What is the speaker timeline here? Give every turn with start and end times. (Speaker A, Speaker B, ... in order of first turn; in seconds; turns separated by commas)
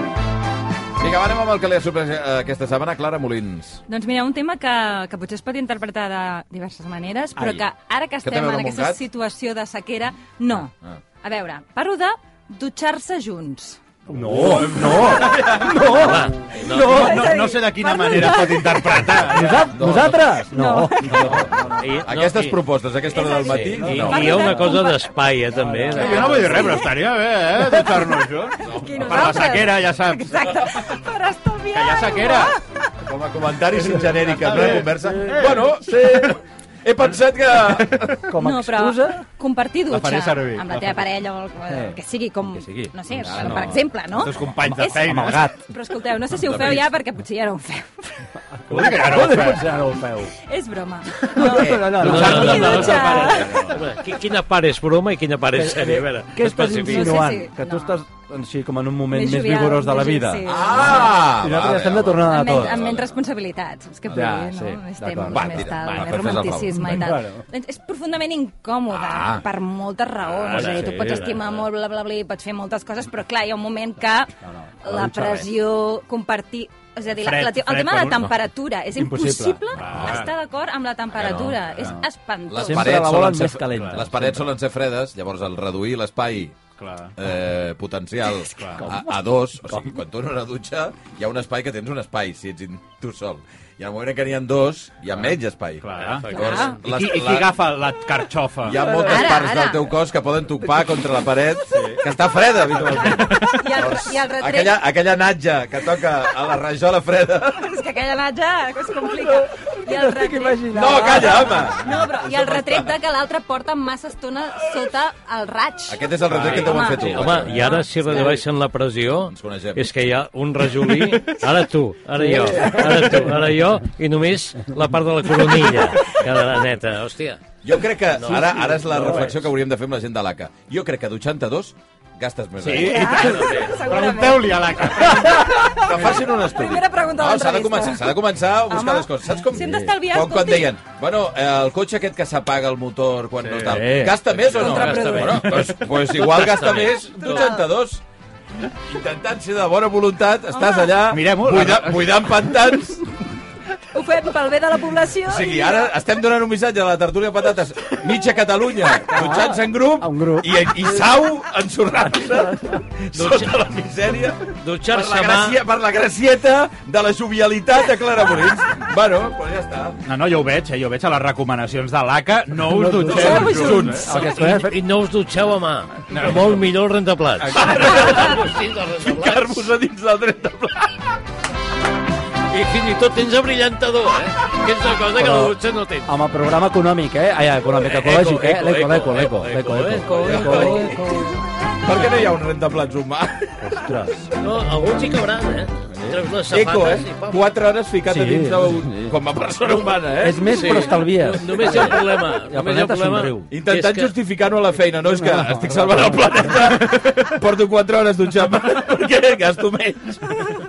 Speaker A: 1.0-3.8, Speaker B: 3.9-13.8, Speaker A: 8.2-9.0, Speaker C: 14.1-17.3, Speaker D: 14.1-16.0, Speaker E: 15.9-17.2, Speaker B: 16.7-19.1, Speaker D: 16.8-19.9, Speaker C: 19.3-21.8, Speaker A: 19.7-20.3, Speaker B: 20.5-21.3, Speaker A: 21.0-24.5, Speaker E: 21.8-22.6, Speaker B: 23.0-25.1, Speaker E: 23.4-26.5, Speaker C: 25.6-26.8, Speaker B: 25.9-27.0, Speaker D: 26.0-30.6, Speaker B: 27.7-28.1, Speaker A: 28.6-29.2, Speaker B: 28.6-32.8, Speaker D: 31.7-32.6, Speaker A: 33.0-38.3, Speaker D: 34.0-35.7, Speaker C: 34.5-36.3, Speaker C: 38.2-39.2, Speaker B: 38.3-48.1, Speaker D: 39.9-41.0, Speaker C: 41.7-43.8, Speaker D: 44.1-45.5, Speaker C: 44.6-45.6, Speaker A: 46.4-46.8, Speaker C: 48.7-50.3, Speaker D: 48.7-49.7, Speaker B: 50.4-53.7, Speaker C: 51.3-53.8, Speaker A: 51.6-52.1, Speaker E: 52.0-57.3, Speaker C: 55.5-62.8, Speaker B: 56.8-58.0, Speaker B: 59.1-61.3, Speaker A: 60.4-63.2, Speaker B: 62.2-83.0, Speaker C: 64.1-66.2, Speaker A: 65.3-66.9, Speaker C: 66.7-67.4, Speaker A: 68.9-69.4, Speaker E: 70.5-71.6, Speaker D: 70.5-70.8, Speaker C: 70.5-71.3, Speaker C: 74.4-75.5, Speaker D: 77.2-78.3, Speaker C: 78.9-80.2, Speaker D: 79.8-80.3, Speaker A: 81.1-81.6, Speaker A: 82.5-86.6, Speaker C: 82.6-84.5, Speaker D: 83.7-84.0, Speaker D: 86.8-87.1, Speaker A: 87.2-97.5, Speaker D: 88.5-88.8, Speaker C: 88.8-89.1, Speaker C: 89.7-89.9, Speaker D: 95.8-98.8, Speaker E: 96.0-96.7, Speaker B: 96.3-96.8, Speaker A: 98.6-107.7, Speaker B: 98.8-99.9, Speaker D: 101.7-102.0, Speaker B: 103.1-104.8, Speaker B: 107.5-118.4, Speaker C: 109.2-111.7, Speaker A: 110.7-112.9, Speaker A: 115.9-117.7, Speaker E: 116.4-127.4, Speaker A: 119.3-119.9, Speaker C: 122.2-123.4, Speaker A: 127.6-133.2, Speaker E: 128.1-129.3, Speaker C: 128.5-129.3, Speaker D: 132.6-135.4, Speaker B: 132.7-140.7, Speaker E: 133.2-133.8, Speaker C: 135.1-135.6, Speaker A: 135.6-148.0, Speaker C: 139.5-139.9, Speaker D: 143.4-143.8, Speaker C: 143.6-144.2, Speaker E: 144.3-147.5, Speaker B: 144.4-145.8, Speaker B: 147.1-147.7, Speaker A: 148.8-153.1, Speaker B: 150.5-151.0, Speaker D: 151.1-152.2, Speaker B: 153.9-155.9, Speaker A: 155.2-170.0, Speaker C: 159.1-161.0, Speaker E: 163.1-163.7, Speaker E: 164.6-165.6, Speaker D: 170.0-174.1, Speaker C: 172.7-174.8, Speaker A: 173.1-174.1, Speaker E: 174.1-179.7, Speaker D: 176.1-176.5, Speaker D: 177.4-177.8, Speaker A: 177.5-181.0, Speaker E: 182.5-186.1, Speaker C: 185.2-185.5, Speaker C: 186.1-191.3, Speaker E: 187.8-191.0, Speaker A: 190.1-191.1, Speaker A: 191.8-193.8, Speaker C: 193.6-194.3, Speaker E: 194.4-197.4, Speaker A: 196.5-200.8, Speaker C: 198.1-199.2, Speaker C: 200.2-203.5, Speaker E: 200.5-204.1, Speaker A: 203.5-210.6, Speaker C: 205.1-206.5